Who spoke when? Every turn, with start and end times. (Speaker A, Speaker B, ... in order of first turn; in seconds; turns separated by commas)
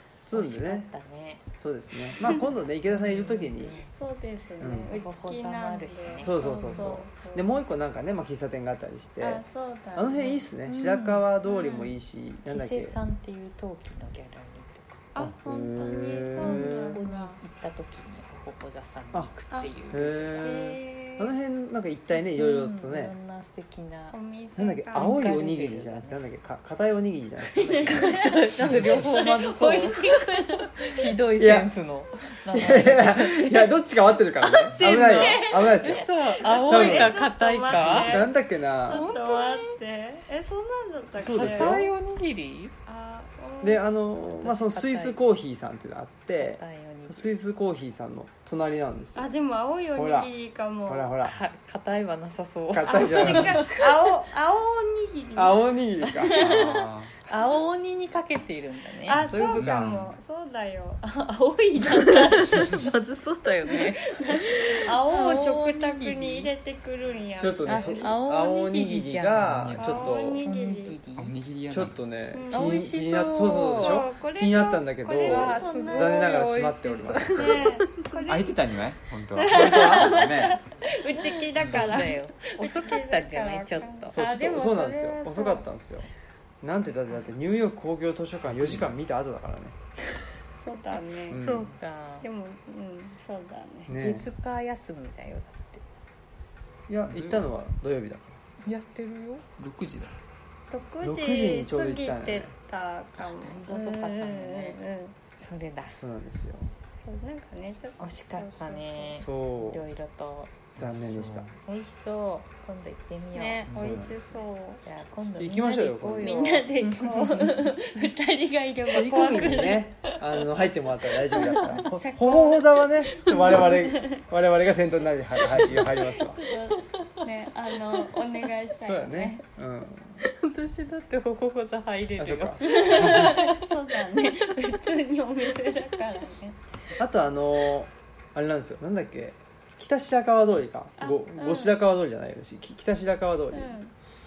Speaker A: 0.2-0.9, Speaker B: 0.3-1.5, Speaker A: 1.6-3.8, Speaker B: 2.2-3.9, Speaker C: 3.9-7.5, Speaker A: 4.6-4.9, Speaker B: 4.9-6.8, Speaker A: 6.2-9.4, Speaker C: 9.2-10.4, Speaker A: 9.9-13.0, Speaker B: 10.7-11.8, Speaker B: 12.4-15.1, Speaker C: 15.1-17.4, Speaker A: 15.2-17.0, Speaker B: 15.7-20.6, Speaker A: 19.9-23.1, Speaker C: 20.3-21.3, Speaker B: 22.3-24.2, Speaker C: 24.1-25.1, Speaker A: 24.6-28.1, Speaker B: 24.9-26.2, Speaker C: 27.5-30.9, Speaker B: 27.8-33.7, Speaker A: 31.4-31.7, Speaker A: 32.5-36.1, Speaker B: 34.4-38.2, Speaker C: 34.8-41.8, Speaker A: 36.6-37.1, Speaker A: 37.7-39.0, Speaker B: 38.9-39.8, Speaker A: 41.2-41.9, Speaker B: 41.2-42.7, Speaker C: 42.9-43.8, Speaker A: 43.6-49.3, Speaker B: 44.2-45.2, Speaker B: 46.4-47.3, Speaker C: 49.1-51.1, Speaker A: 49.9-50.3, Speaker A: 50.9-51.4, Speaker B: 51.2-54.1, Speaker A: 52.7-53.7, Speaker C: 52.9-56.8, Speaker A: 55.3-56.4, Speaker D: 56.4-57.1, Speaker B: 56.4-56.7, Speaker B: 57.2-59.2, Speaker C: 59.0-62.9, Speaker A: 59.2-60.0, Speaker D: 59.5-60.1, Speaker B: 62.0-66.5, Speaker C: 63.6-68.1, Speaker A: 67.4-70.5, Speaker B: 67.7-69.7, Speaker D: 69.4-70.1, Speaker C: 69.8-71.0, Speaker B: 70.4-71.3, Speaker D: 71.2-72.0, Speaker A: 71.7-77.7, Speaker C: 72.3-72.9, Speaker B: 72.5-74.0, Speaker C: 73.5-76.4, Speaker B: 75.2-78.2, Speaker C: 77.3-78.7, Speaker D: 78.3-80.6, Speaker C: 79.3-85.6, Speaker A: 79.5-80.2, Speaker B: 81.2-84.2, Speaker D: 81.6-82.0, Speaker A: 84.1-86.1, Speaker A: 86.6-89.8, Speaker D: 88.5-88.9, Speaker C: 90.6-91.4, Speaker A: 91.3-91.7, Speaker B: 91.3-92.3, Speaker C: 92.2-94.0, Speaker A: 93.9-94.3, Speaker B: 93.9-95.8, Speaker A: 96.9-98.4, Speaker D: 97.1-97.5, Speaker B: 98.6-99.4, Speaker D: 99.6-100.2, Speaker C: 100.7-105.2, Speaker A: 101.0-102.5, Speaker B: 103.2-104.8, Speaker B: 105.3-106.0, Speaker A: 106.0-106.7, Speaker C: 107.0-109.2, Speaker B: 108.0-110.5, Speaker A: 109.2-109.8, Speaker A: 110.8-111.5, Speaker D: 110.8-111.5, Speaker B: 111.6-113.7, Speaker C: 113.3-114.8, Speaker D: 113.7-114.0, Speaker A: 113.7-114.2, Speaker B: 114.8-118.1, Speaker A: 115.4-116.4, Speaker C: 116.2-119.9, Speaker A: 118.9-126.4, Speaker B: 121.3-121.8, Speaker C: 121.5-124.2, Speaker B: 123.2-123.7, Speaker B: 125.5-128.2, Speaker C: 126.3-129.4, Speaker A: 128.8-130.2, Speaker B: 130.2-134.5, Speaker A: 132.2-133.0, Speaker C: 132.6-136.6, Speaker A: 136.9-143.8, Speaker C: 141.0-141.8, Speaker C: 143.5-143.9